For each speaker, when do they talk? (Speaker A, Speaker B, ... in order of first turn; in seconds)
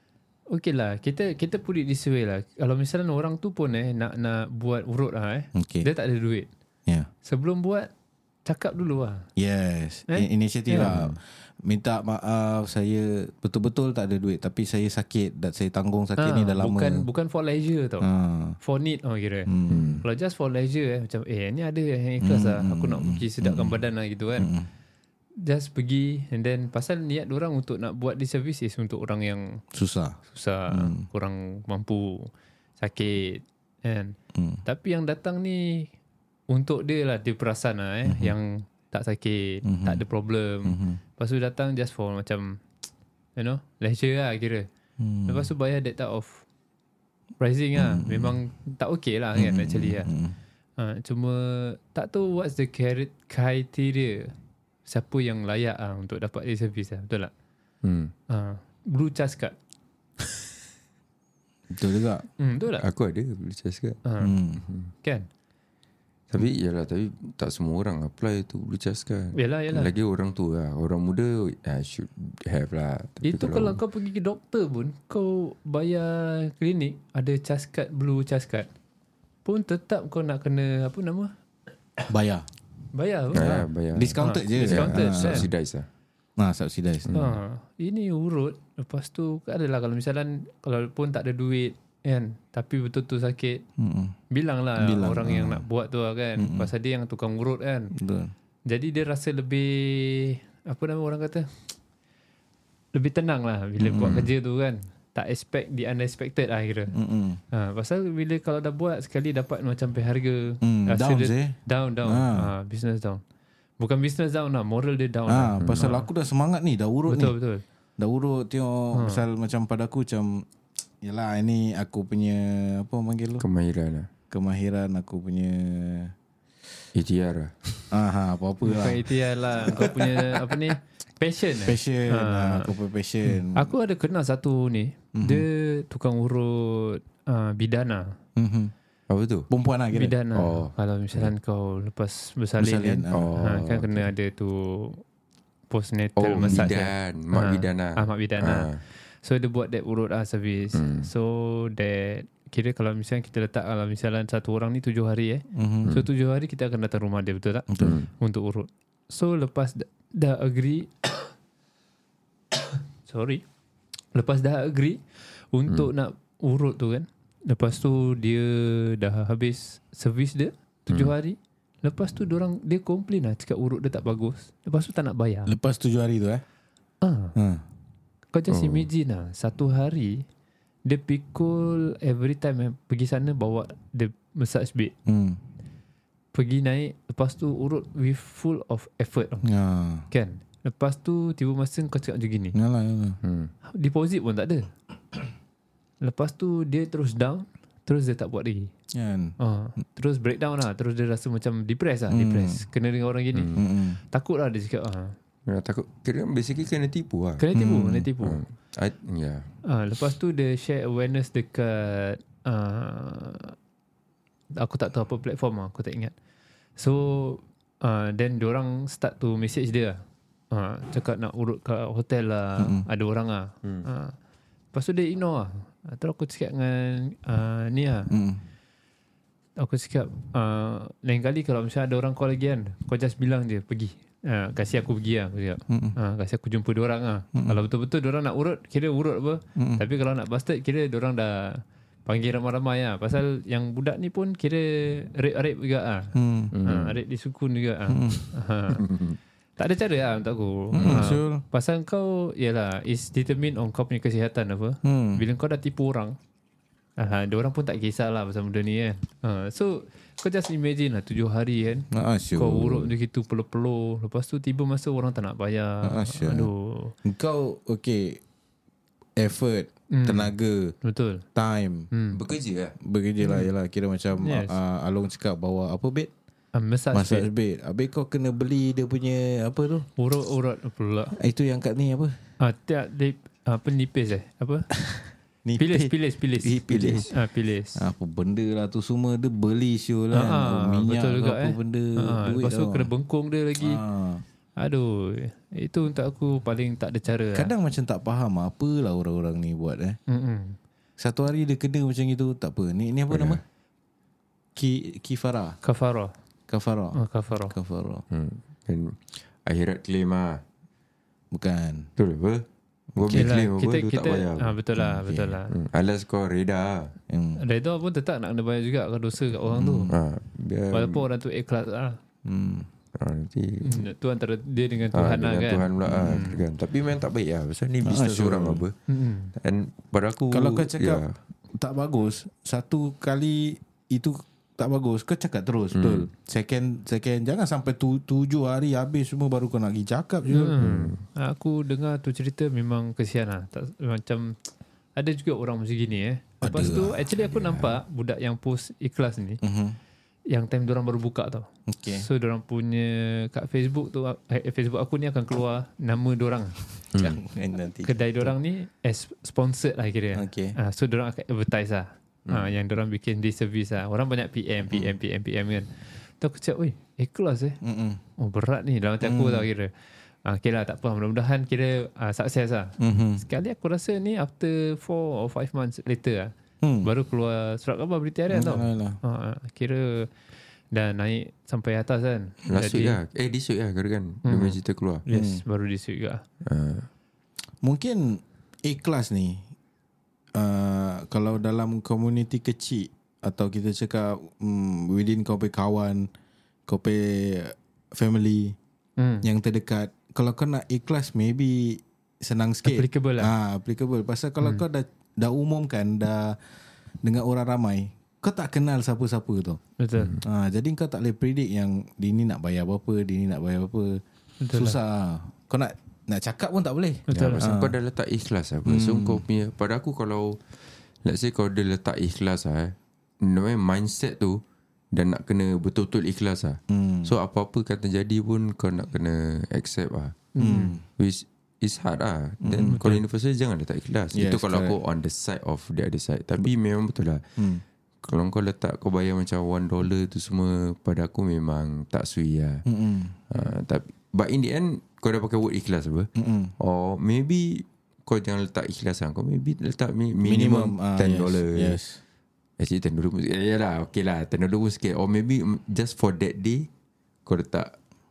Speaker A: 0.5-6.5, 7.2-7.9, 8.4-9.2, 10.1-10.9, 16.2-18.1, 18.6-24.5, 25.4-29.6, 30.3-34.1, 34.6-35.9, 36.5-42.6, 43.4-44.7, 45.2-46.4, 47.4-50.1, 50.8-54.3, 54.8-57.3, 58.3-59.5, 62.4-62.9, 64.0-64.4, 65.0-65.3, 69.3-69.9, 73.2-78.7, 79.4-81.3, 82.9-83.7, 84.2-85.5, 87.1-93.6, 94.3-97.9, 98.7-101.7, 102.9-106.9, 107.5-113.2, 113.8-116.1, 117.1-117.6, 118.9-119.2, 128.6-132.8, 133.5-138.1, 139.9-145.0, 145.7-161.3, 163.0-163.4, 164.1-175.5, 177.0-177.3, 178.3-180.2, 180.8-184.9, 186.3-189.5, 190.1-192.5, 193.7-194.7, 196.0-198.7, 199.4-205.2, 207.4-208.4, 209.6-213.6, 214.5-216.1, 216.8-224.2, 224.7-228.1, 229.6-248.8, 249.6-256.1, 257.0-266.9, 269.9-270.3, 270.8-271.2, 271.9-272.2, 273.2-273.5, 274.1-274.6, 276.5-277.3, 280.0-281.1, 282.4-284.7, 285.6-287.9, 290.1-293.8, 294.6-297.5, 300.1-300.6, 305.6-306.1, 306.9-307.5, 313.1-315.5, 317.4-319.9, 320.7-322.0, 323.6-326.4, 328.9-329.3, 340.3-344.3, 344.9-349.4, 350.3-356.6, 357.8-367.6, 368.2-369.7, 370.2-380.1, 380.7-383.0, 384.2-386.2, 399.0-399.3, 402.6-403.3, 409.8-410.2, 414.4-414.8, 417.1-417.4, 430.3-430.7
Speaker B: 5.5-5.9, 9.4-17.1, 18.0-18.6, 19.5-20.0, 22.2-23.8, 24.4-24.7, 29.7-30.2, 30.7-31.1, 34.3-34.6, 38.0-38.4, 39.6-40.0, 40.6-41.0, 45.0-45.5, 47.8-48.4, 49.3-50.3, 61.7-62.3, 64.2-64.6, 82.1-82.4, 83.3-85.5, 86.4-87.1, 93.8-94.1, 94.8-95.7, 96.4-96.7, 98.0-98.3, 103.8-104.3, 106.9-107.4, 110.6-112.5, 115.3-117.3, 118.0-120.5, 121.0-123.4, 124.3-126.1, 127.9-130.6, 131.6-133.7, 135.1-135.5, 138.3-138.7, 139.5-140.1, 142.6-143.3, 146.4-146.8, 155.5-156.0, 157.7-158.0, 175.4-176.4, 177.3-177.6, 185.1-185.4, 189.4-190.1, 192.5-193.2, 198.9-199.3, 202.1-202.7, 203.5-204.0, 207.5-208.1, 222.6-222.8, 228.1-228.4, 235.7-235.9, 239.6-239.8, 246.1-246.6, 247.9-248.3, 250.7-251.4, 254.8-255.2, 261.9-262.9, 265.8-266.5, 267.0-268.2, 269.2-270.7, 271.3-271.9, 272.8-276.1, 276.9-279.9, 281.2-282.1, 284.8-287.2, 287.7-292.9, 293.6-294.2, 297.3-300.0, 301.0-303.4, 304.6-305.6, 306.5-308.0, 311.3-311.9, 312.9-313.4, 314.9-315.4, 317.1-317.4, 319.4-320.0, 322.2-322.7, 325.9-326.1, 327.8-328.6, 330.3-340.6, 346.4-347.1, 349.4-349.8, 351.7-352.1, 357.0-358.3, 360.1-360.6, 367.6-368.0, 369.0-369.5, 372.8-373.2, 376.6-376.9, 378.3-379.0, 385.1-385.4, 387.6-389.4, 390.3-396.1, 396.7-398.6, 399.2-406.4, 407.0-409.6, 410.2-417.8, 418.6-419.2, 426.7-427.1, 430.4-430.8, 432.4-433.0, 434.1-434.8, 437.4-437.6, 442.6-443.3, 446.2-446.5, 450.2-452.0
Speaker C: 19.7-20.0, 57.8-58.1, 62.8-64.0, 64.6-64.9, 66.3-73.8, 83.3-85.9, 87.1-87.4, 115.6-115.9, 123.4-124.1, 126.9-127.9, 139.1-139.5, 140.3-141.3, 143.1-144.1, 146.2-148.8, 150.7-151.1, 157.8-158.1, 170.9-171.1, 178.5-178.9, 193.2-193.5, 205.4-207.4, 208.2-209.5, 246.5-247.0, 248.7-249.2, 250.8-251.1, 272.1-272.8, 303.1-303.4, 308.1-310.4, 312.0-312.4, 312.9-316.9, 319.9-321.0, 322.9-323.8, 324.9-328.8, 329.4-331.1, 335.7-336.1, 340.6-341.0, 347.1-347.8, 356.9-357.2, 362.2-362.5, 382.4-385.0, 386.4-386.9, 410.0-410.2, 417.1-420.4, 421.0-424.4, 424.9-430.4, 431.0-437.4, 438.0-442.6, 443.3-451.8, 452.6-456.7, 457.2-457.7